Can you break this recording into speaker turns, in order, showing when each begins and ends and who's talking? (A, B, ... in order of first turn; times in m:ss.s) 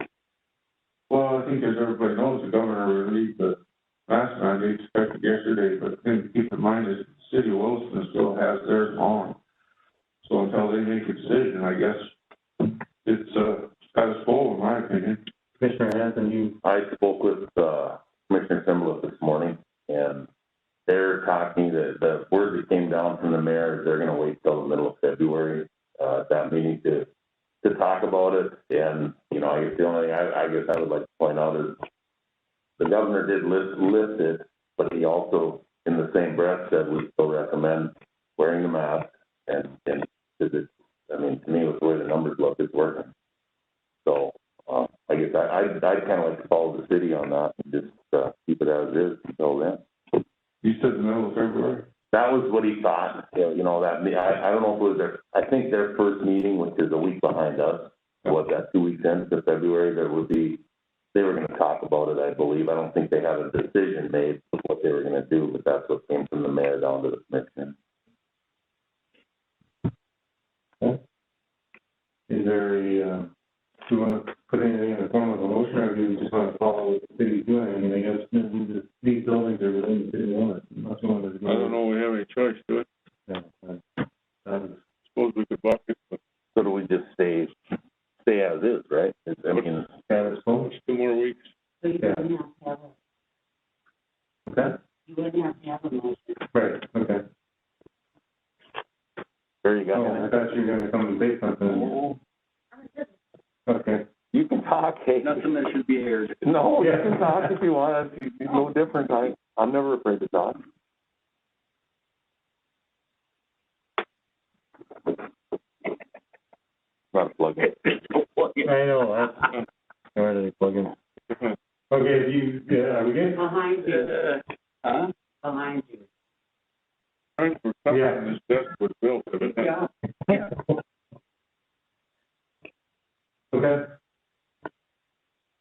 0:01.1-0:09.4 A
0:10.2-0:15.2 A
0:15.6-0:16.6 B
0:16.6-0:20.3 C
0:20.9-0:27.1 C
0:27.6-0:31.8 C
0:32.8-0:43.1 C
0:44.0-0:49.8 C
0:50.6-0:51.8 A
0:52.1-1:00.6 C
1:01.1-1:07.7 C
1:12.3-1:13.3 B
1:13.8-1:21.8 B
1:21.4-1:22.9 D
1:23.3-1:23.8 B
1:24.4-1:24.8 B
1:25.1-1:26.2 D
1:26.5-1:27.5 C
1:28.2-1:30.0 C
1:30.1-1:30.7 B
1:30.5-1:31.5 D
1:31.8-1:32.9 E
1:34.5-1:34.8 B
1:35.1-1:36.4 E
1:36.5-1:37.2 B
1:39.6-1:40.3 C
1:39.9-1:42.2 B
1:43.7-1:44.0 B
1:44.3-1:45.6 C
1:45.2-1:46.4 F
1:46.4-1:50.6 C
1:46.8-1:47.3 B
1:57.1-1:57.9 C
1:58.6-1:59.6 B
2:00.1-2:00.9 B
2:01.9-2:03.4 B
2:03.4-2:04.2 E
2:04.0-2:05.1 F
2:05.4-2:06.0 E
2:07.4-2:09.9 D
2:07.9-2:08.3 B
2:13.5-2:13.8 B